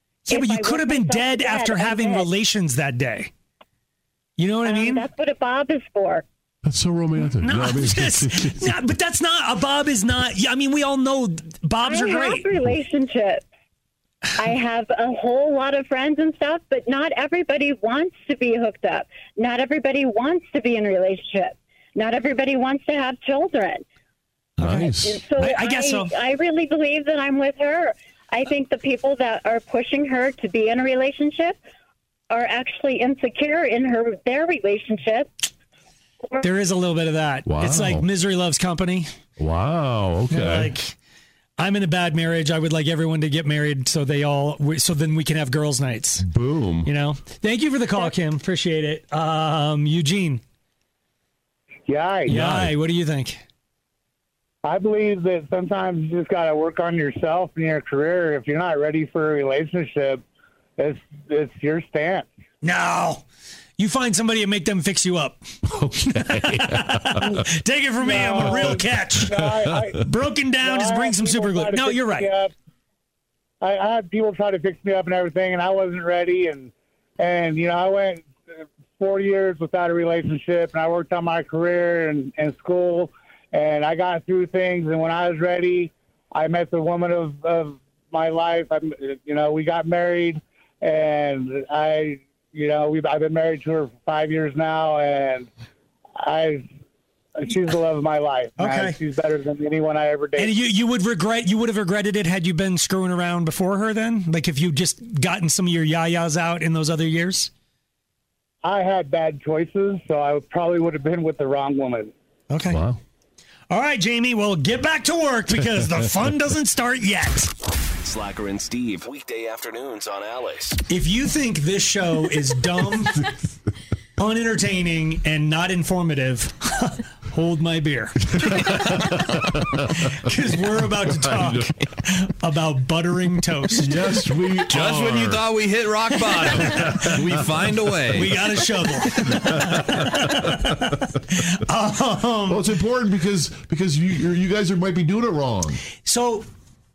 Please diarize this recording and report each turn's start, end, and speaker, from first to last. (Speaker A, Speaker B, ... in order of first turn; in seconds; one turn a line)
Speaker A: 0.3-3.3
Speaker B: 0.3-2.3
Speaker A: 4.4-5.0
Speaker B: 4.6-6.2
Speaker C: 6.6-8.8
Speaker A: 7.4-12.5
Speaker B: 11.8-13.4
Speaker B: 14.4-23.8
Speaker C: 24.6-25.2
Speaker A: 24.6-26.1
Speaker B: 25.0-31.6
Speaker B: 32.3-35.3
Speaker A: 36.4-39.1
Speaker C: 37.5-38.0
Speaker C: 39.4-40.7
Speaker A: 40.3-41.0
Speaker A: 41.6-46.3
Speaker C: 46.2-46.9
Speaker A: 46.8-50.4
Speaker D: 51.9-52.3
Speaker A: 52.3-53.4
Speaker C: 52.3-52.7
Speaker D: 54.6-60.2
Speaker D: 60.8-62.3
Speaker A: 62.6-63.2
Speaker A: 63.8-72.3
Speaker C: 65.7-67.4
Speaker D: 68.0-70.0
Speaker C: 68.2-70.0
Speaker D: 70.6-72.5
Speaker D: 73.6-78.3
Speaker D: 79.0-95.5
Speaker D: 96.2-96.7
Speaker D: 97.4-100.5
Speaker A: 98.6-99.0
Speaker A: 100.4-107.5
Speaker D: 108.6-112.1
Speaker A: 112.5-112.8
Speaker C: 112.7-113.0
Speaker A: 113.7-117.5
Speaker E: 118.0-120.8
Speaker A: 120.9-123.3
Speaker A: 124.2-129.4
Speaker C: 128.4-129.9
Speaker A: 129.9-134.0
Speaker C: 130.7-131.7
Speaker C: 133.8-135.5
Speaker F: 134.7-138.4
Speaker C: 136.4-137.9
Speaker A: 138.1-142.6
Speaker C: 142.5-145.8
Speaker A: 146.0-146.4